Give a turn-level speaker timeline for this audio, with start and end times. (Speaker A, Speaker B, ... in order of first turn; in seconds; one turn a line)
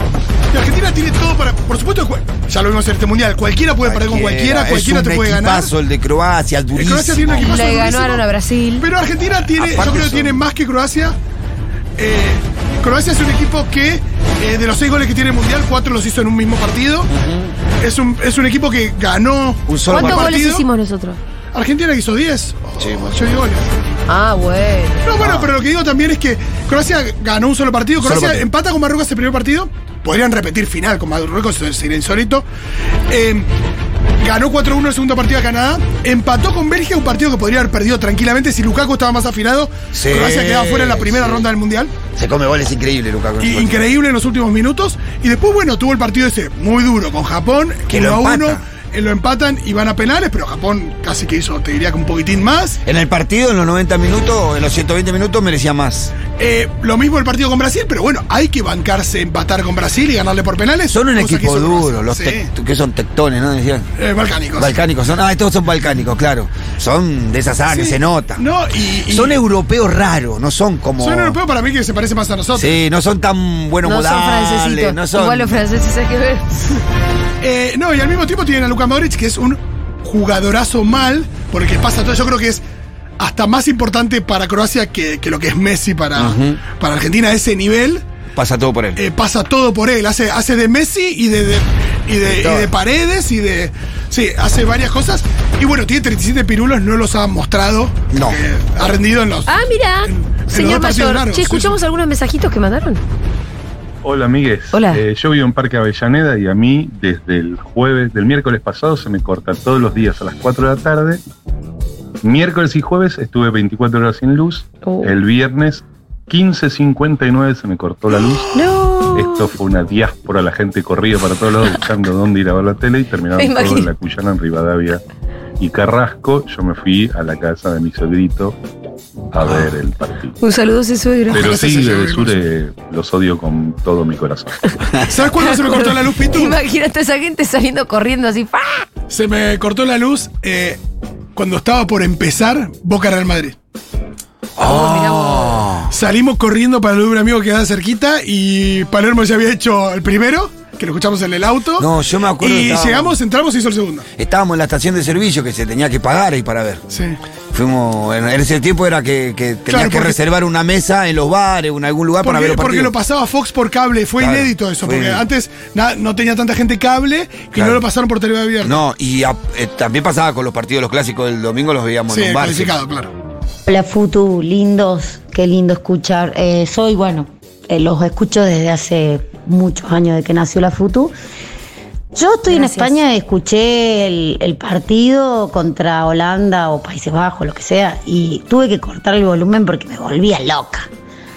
Speaker A: 0.5-5.7
Speaker B: 3.8-7.5
Speaker A: 6.7-8.2
Speaker C: 7.3-8.8
Speaker A: 8.8-11.2
Speaker B: 9.5-10.4
Speaker A: 12.0-17.1
Speaker B: 17.1-17.5
Speaker A: 17.8-20.6
Speaker B: 19.7-20.4
Speaker C: 19.9-21.2
Speaker A: 21.5-23.7
Speaker B: 22.8-23.3
Speaker C: 24.1-25.1
Speaker A: 25.0-32.4
Speaker B: 25.2-25.5
Speaker B: 28.0-28.5
Speaker A: 33.1-33.5
Speaker A: 34.2-41.9
Speaker B: 39.9-41.5
Speaker B: 42.1-43.9
Speaker A: 43.4-52.8
Speaker B: 47.9-48.6
Speaker B: 52.8-56.1
Speaker A: 56.3-62.5
Speaker B: 60.9-63.9
Speaker A: 64.0-64.7
Speaker B: 64.5-68.4
Speaker A: 67.7-69.4
Speaker B: 69.1-71.4
Speaker A: 71.0-72.8
Speaker B: 72.5-75.6
Speaker C: 73.8-76.8
Speaker A: 77.4-82.6
Speaker A: 83.2-88.0
Speaker B: 86.2-86.6
Speaker B: 88.3-89.0
Speaker A: 89.0-99.5
Speaker B: 92.2-92.7
Speaker B: 98.1-98.4
Speaker C: 99.5-103.0
Speaker A: 100.0-101.8
Speaker D: 104.0-111.2
Speaker C: 104.7-105.0
Speaker D: 112.2-118.6
Speaker C: 114.8-115.1
Speaker C: 118.5-119.5
Speaker D: 119.1-125.0
Speaker C: 123.3-123.9
Speaker D: 125.6-128.6
Speaker D: 129.3-130.3
Speaker B: 129.4-129.8
Speaker C: 130.4-131.6
Speaker A: 131.3-132.4
Speaker D: 131.3-134.7
Speaker A: 135.0-136.6
Speaker C: 135.3-138.8
Speaker A: 139.1-140.8
Speaker A: 141.3-143.6
Speaker B: 144.6-145.9
Speaker C: 144.6-145.7
Speaker A: 145.9-154.1
Speaker B: 151.8-153.2
Speaker B: 154.2-156.8
Speaker A: 156.9-157.2
Speaker B: 157.5-162.9
Speaker A: 159.7-160.2
Speaker A: 162.2-168.8
Speaker B: 164.2-165.3
Speaker B: 167.5-167.8
Speaker B: 168.6-172.8
Speaker A: 172.1-173.1
Speaker E: 173.7-181.1
Speaker E: 182.1-190.9
Speaker C: 182.5-183.0